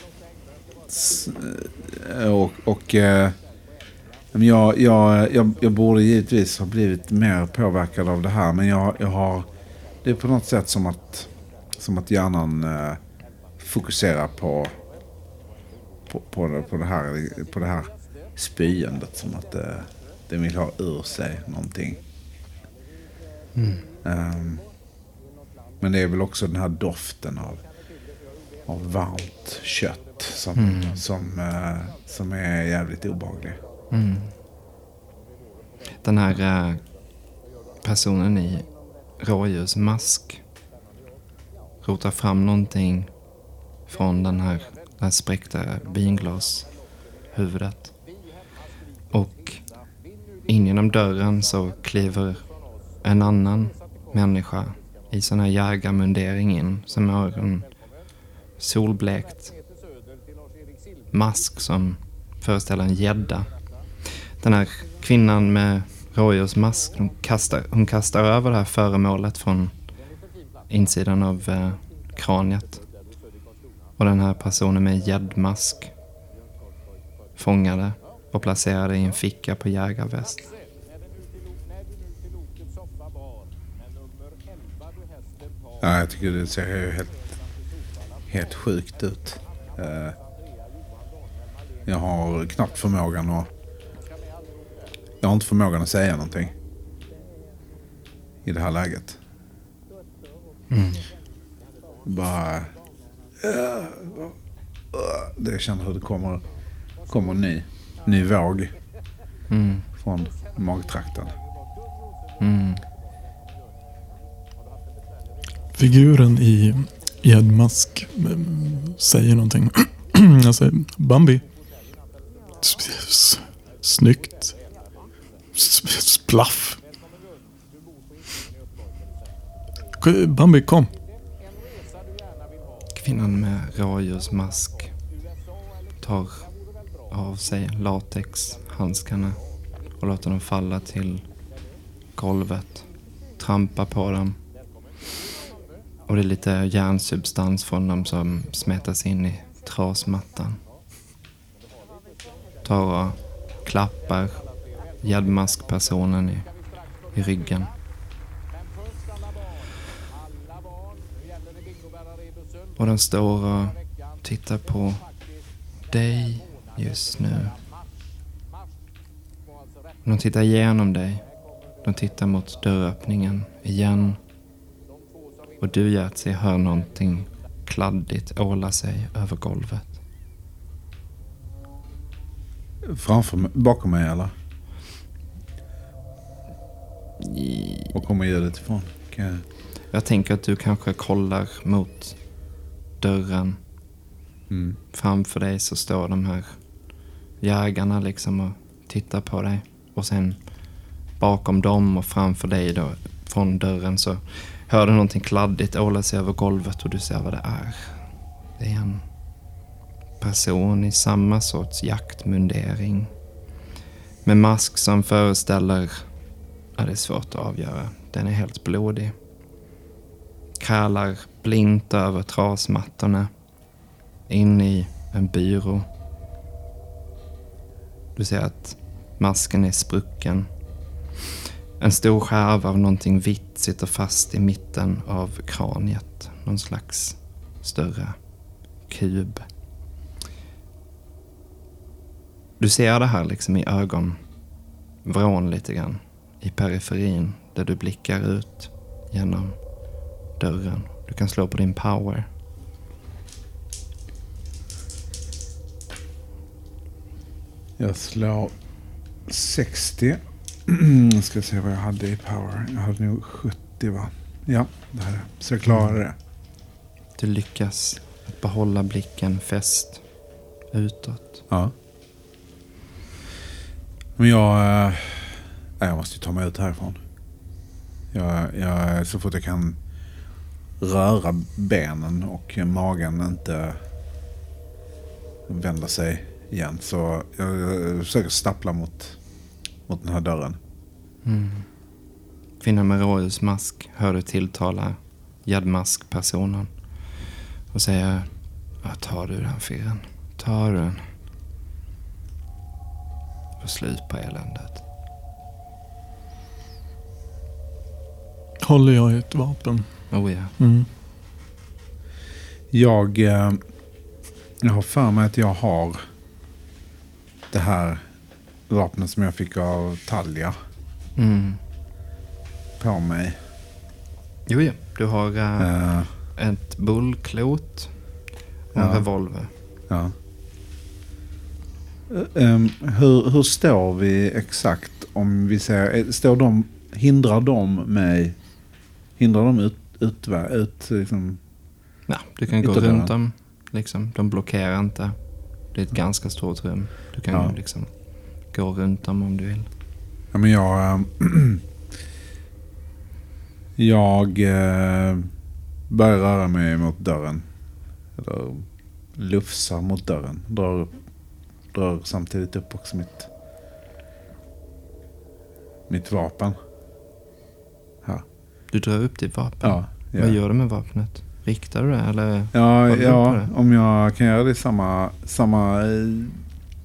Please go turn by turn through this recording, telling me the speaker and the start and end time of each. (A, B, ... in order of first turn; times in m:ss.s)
0:00.9-0:03.4 A
0:04.3-0:09.5 A
0:10.0-0:13.0 A
0:13.6-0:14.8 A
0:16.1-0:22.0 A
0:23.6-0:23.8 B
0:24.0-0:24.6 A
0:25.8-0:27.6 A
0:28.7-0:33.6 A
0:30.5-0:31.0 B
0:33.9-0:34.3 B
0:36.0-0:36.8 B
0:37.8-0:38.6 B
0:39.2-0:40.4 B
0:41.8-0:43.1 B
0:43.9-0:46.7 B
0:47.3-0:47.9 B
0:49.1-0:49.6 B
0:50.5-0:52.4 B
0:53.0-0:57.7 B
0:58.6-0:59.5 B
1:01.1-1:03.5 B
1:04.4-1:09.8 B
1:10.7-1:12.8 B
1:14.0-1:15.9 B
1:17.4-1:20.5 B
1:25.8-1:27.3 A
1:28.3-1:30.2 A
1:31.8-1:33.5 A
1:35.2-1:36.5 A
1:38.4-1:39.2 A
1:40.7-1:41.0 B
1:42.0-1:42.7 A
1:43.4-1:44.3 A
1:44.9-1:46.4 A
1:47.1-1:48.7 A
1:49.5-1:49.8 B
1:50.0-1:51.3 A
1:52.4-1:52.8 B
1:55.7-2:01.4 C
2:02.6-2:04.6 C
2:05.5-2:06.8 C
2:10.0-2:10.9 C
2:12.9-2:14.9 B
2:16.0-2:16.5 B
2:17.1-2:19.4 B
2:20.0-2:21.2 B
2:22.2-2:22.8 B
2:23.4-2:24.4 B
2:26.1-2:30.6 B
2:32.6-2:34.4 B
2:35.0-2:36.5 B
2:37.1-2:37.7 B
2:42.8-2:45.0 B
2:45.9-2:47.6 B
2:50.0-2:51.2 B
2:51.8-2:54.2 B
2:55.6-3:00.0 B
3:02.8-3:04.3 A
3:07.2-3:07.9 B
3:07.9-3:09.4 A
3:09.9-3:12.2 B
3:13.0-3:13.6 B
3:14.5-3:14.8 A
3:14.9-3:16.6 B
3:17.4-3:20.4 B
3:21.2-3:28.0 B
3:28.6-3:29.0 B
3:30.2-3:33.1 B
3:34.2-3:36.1 B
3:36.8-3:39.1 B
3:40.6-3:43.3 B
3:44.3-3:45.9 B
3:48.2-3:50.5 B
3:51.8-3:58.2 B
3:58.9-3:59.4 B
4:02.6-4:04.2 B
4:05.0-4:09.6 B
4:10.4-4:12.3 B
4:17.8-4:18.5 A
4:19.3-4:26.1 A
4:25.7-4:26.0 B
4:27.2-4:30.0 B
4:30.7-4:31.4 B
4:34.2-4:37.0 A
4:38.1-4:39.8 A
4:40.8-4:43.8 A
4:45.5-4:49.2 A
4:49.9-4:50.6 A
4:51.2-4:51.6 B
4:52.6-4:56.7 B
4:57.7-4:58.3 B
4:58.8-5:01.1 B
5:03.6-5:04.8 B
5:08.6-5:10.0 C
5:10.1-5:10.5 B
5:10.6-5:10.9 C
5:12.7-5:13.6 A
5:14.6-5:16.0 A
5:17.5-5:18.0 A
5:18.7-5:20.5 A
5:21.2-5:21.6 B
5:22.8-5:23.4 A
5:24.5-5:25.7 B
5:25.6-5:26.1 A
5:26.2-5:27.9 B
5:28.7-5:29.5 B
5:28.7-5:29.1 A
5:32.1-5:38.4 A
5:39.2-5:41.4 A
5:42.1-5:45.2 B
5:42.6-5:43.1 A
5:45.7-5:49.7 B
5:50.3-5:51.6 A
5:53.8-5:55.3 A
5:55.9-5:57.5 A
5:58.2-5:58.6 A
5:59.2-6:00.9 A
6:01.7-6:03.3 A
6:05.9-6:06.6 A
6:08.7-6:13.5 B
6:09.6-6:10.4 A
6:12.5-6:16.4 A